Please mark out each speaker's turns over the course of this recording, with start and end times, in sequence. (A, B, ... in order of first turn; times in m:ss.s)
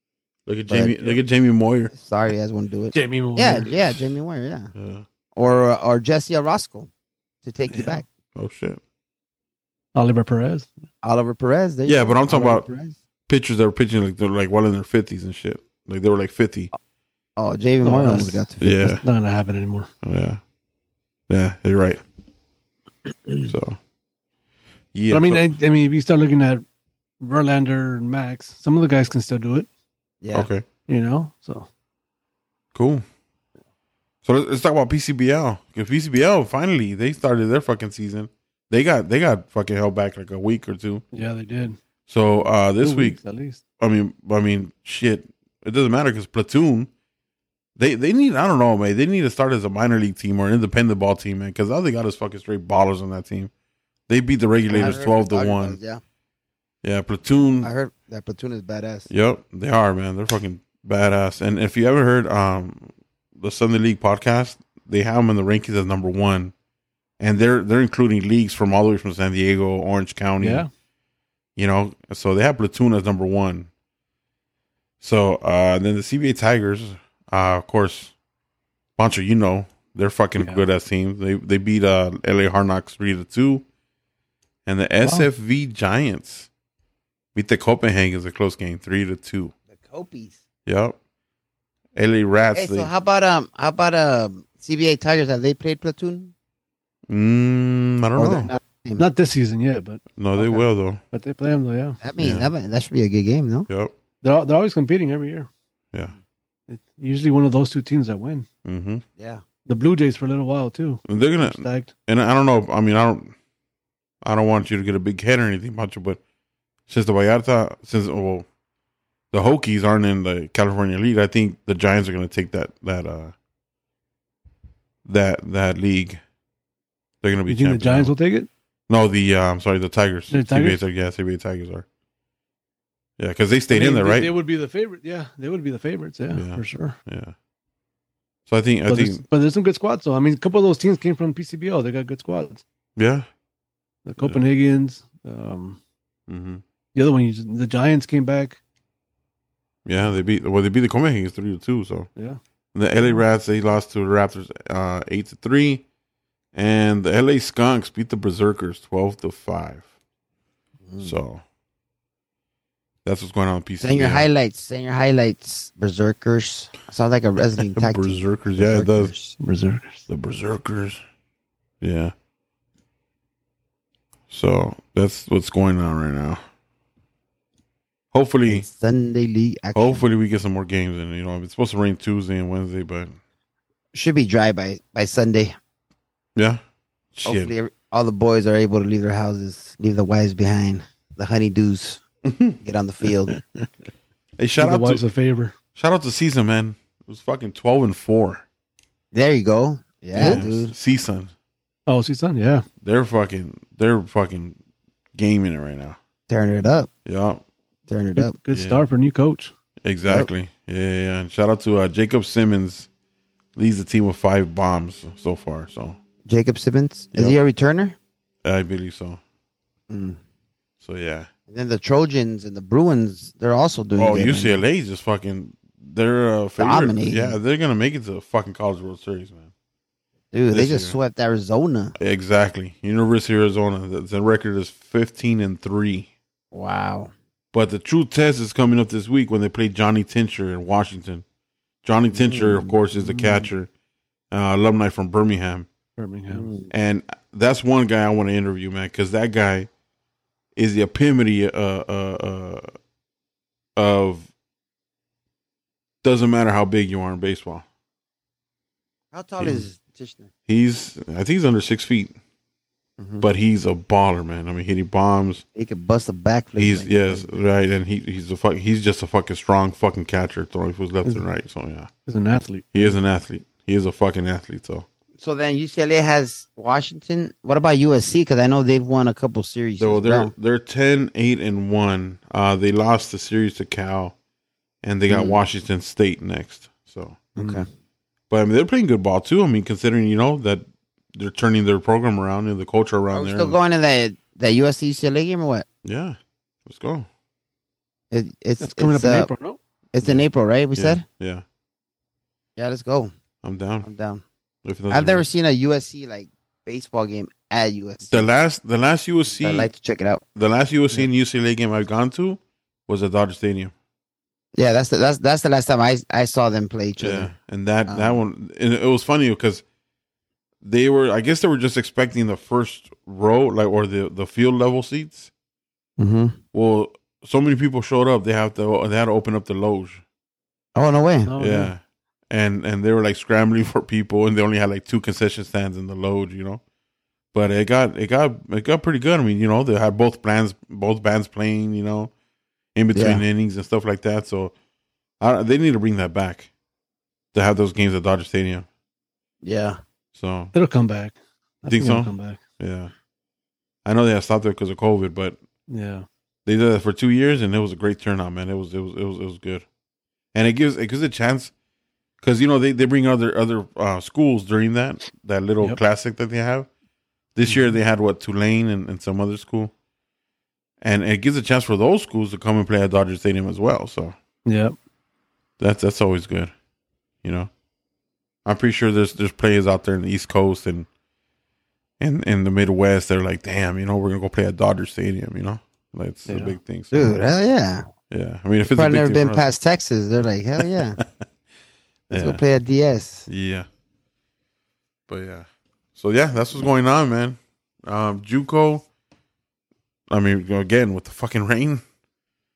0:00.4-0:01.9 A
0:00.7-0:01.0 B
0:01.9-0:04.7 B
0:02.9-0:04.1 C
0:04.7-0:05.0 A
0:05.3-0:06.9 B
0:07.4-0:08.0 B
0:07.7-0:08.0 C
0:08.3-0:08.8 A
0:09.9-0:10.7 C
0:11.0-0:12.9 B
0:11.8-0:12.6 A
0:12.3-0:12.7 C
0:13.3-0:16.7 A
0:17.4-0:18.7 B
0:17.8-0:19.9 C
0:18.6-0:19.0 A
0:20.0-0:20.4 A
0:21.3-0:22.0 A
0:23.5-0:23.8 A
0:24.9-0:25.5 A
0:25.1-0:26.6 C
0:27.2-0:29.7 C
0:30.2-0:30.5 B
0:30.3-0:30.7 A
0:30.9-0:31.7 C
0:32.7-0:33.0 A
0:34.2-0:41.0 A
0:41.1-0:41.8 C
0:42.1-0:43.2 A
0:42.8-0:43.6 C
0:43.8-0:46.9 A
0:47.8-0:53.5 A
0:54.1-0:55.8 A
0:54.7-0:56.0 B
0:56.8-0:57.7 A
0:57.6-0:59.1 B
0:59.1-1:06.5 A
1:07.2-1:10.6 A
1:10.4-1:10.7 C
1:11.6-1:13.7 A
1:15.0-1:18.1 A
1:19.0-1:23.6 A
1:24.6-1:26.5 A
1:27.3-1:29.5 A
1:29.8-1:30.4 B
1:30.6-1:31.0 A
1:31.9-1:32.9 A
1:32.5-1:36.3 B
1:37.1-1:38.5 A
1:38.2-1:39.0 B
1:39.0-1:42.0 C
1:40.2-1:41.0 A
1:42.0-1:43.7 B
1:42.2-1:42.5 A
1:43.7-1:43.9 A
1:44.2-1:45.5 C
1:46.7-1:48.5 C
1:48.6-1:49.0 A
1:49.2-1:49.4 B
1:49.6-1:51.9 C
1:51.1-1:53.3 A
1:54.2-1:56.2 A
1:56.9-1:58.5 A
1:59.3-2:03.3 A
2:05.0-2:06.2 A
2:07.2-2:08.1 A
2:07.5-2:08.5 C
2:08.9-2:11.8 A
2:10.3-2:10.8 C
2:13.2-2:14.3 A
2:13.7-2:17.0 C
2:16.3-2:17.3 A
2:18.5-2:19.2 A
2:18.9-2:22.6 C
2:23.0-2:23.3 A
2:24.0-2:25.8 C
2:26.3-2:26.6 A
2:26.9-2:28.6 C
2:29.8-2:32.1 A
2:32.7-2:35.8 A
2:36.5-2:39.8 A
2:40.9-2:41.2 B
2:41.0-2:41.4 A
2:43.0-2:44.2 A
2:43.8-2:49.3 B
2:47.6-2:49.1 A
2:49.4-2:50.0 C
2:50.1-2:51.0 A
2:51.8-2:52.1 A
2:54.3-2:56.4 A
2:58.1-2:58.7 A
2:58.5-3:00.0 B
2:59.7-3:03.2 A
3:03.9-3:05.5 B
3:06.4-3:06.6 A
3:07.1-3:07.5 A
3:07.2-3:12.0 B
3:12.3-3:12.6 A
3:12.6-3:13.4 B
3:13.3-3:13.7 A
3:14.4-3:15.0 A
3:14.6-3:15.5 C
3:15.7-3:18.4 A
3:19.1-3:20.7 B
3:20.2-3:20.4 C
3:20.2-3:21.3 A
3:21.9-3:22.6 C
3:22.8-3:24.6 A
3:25.1-3:26.0 A
3:26.3-3:26.9 B
3:27.0-3:27.4 A
3:27.9-3:28.3 B
3:28.2-3:29.5 C
3:28.5-3:28.8 A
3:29.8-3:32.9 A
3:33.6-3:36.0 A
3:36.2-3:38.0 B
3:37.1-3:37.4 A
3:38.4-3:39.2 A
3:39.9-3:40.2 B
3:40.8-3:41.3 A
3:41.5-3:44.6 B
3:44.0-3:49.5 A
3:46.6-3:47.4 B
3:50.3-3:51.9 B
3:50.5-3:50.9 A
3:52.0-3:56.1 A
3:56.5-3:57.1 B
3:57.5-4:01.2 A
4:01.8-4:03.7 A
4:02.1-4:03.5 B
4:04.3-4:05.7 A
4:06.0-4:06.5 C
4:06.3-4:06.7 B
4:06.7-4:09.7 A
4:10.6-4:12.7 A
4:13.8-4:14.3 A
4:16.0-4:17.6 A
4:19.1-4:20.3 B
4:19.4-4:19.6 A
4:20.5-4:22.2 A
4:23.0-4:23.2 B
4:23.2-4:25.4 A
4:25.5-4:27.4 B
4:26.6-4:31.9 A
4:32.0-4:33.0 C
4:32.7-4:34.8 A
4:35.2-4:40.3 B
4:39.8-4:44.1 A
4:44.8-4:47.3 A
4:45.1-4:45.4 B
4:47.4-4:47.6 C
4:47.4-4:47.6 B
4:48.3-4:53.6 A
4:53.1-4:55.6 B
4:55.8-4:57.1 A
4:58.1-4:59.3 B
4:58.6-4:59.6 C
4:59.9-5:01.0 B
5:00.8-5:01.4 A
5:02.6-5:03.1 B
5:03.4-5:03.9 A
5:03.8-5:04.2 B
5:04.6-5:05.2 A
5:04.9-5:08.3 B
5:08.1-5:09.7 A
5:09.4-5:10.2 B
5:10.4-5:13.7 A
5:14.5-5:17.3 B
5:17.0-5:19.6 A
5:17.9-5:18.2 B
5:20.6-5:25.3 A
5:26.0-5:26.4 B
5:26.5-5:30.0 A
5:30.7-5:31.3 B
5:31.2-5:31.7 C
5:31.4-5:36.6 A
5:37.3-5:42.1 A
5:42.7-5:44.5 A
5:42.9-5:43.2 B
5:45.2-5:46.5 A
5:47.3-5:48.7 A
5:49.4-5:49.8 B
5:50.1-5:50.5 A
5:50.5-5:52.4 C
5:51.7-5:52.9 A
5:53.8-5:55.4 A
5:55.7-5:56.0 C
5:56.4-5:59.6 A
6:00.3-6:01.5 A
6:02.2-6:06.7 A
6:07.3-6:09.7 A
6:07.5-6:07.7 C
6:10.8-6:14.2 A
6:14.4-6:14.7 C
6:15.6-6:16.5 A
6:17.2-6:17.5 A
6:18.4-6:20.9 A
6:22.0-6:27.1 A
6:26.3-6:26.6 C
6:26.9-6:27.9 B
6:28.1-6:29.5 A
6:28.7-6:31.0 B
6:30.6-6:31.2 A
6:32.1-6:32.4 A
6:32.1-6:33.3 B
6:33.3-6:33.7 A
6:35.1-6:38.8 A
6:40.1-6:41.8 A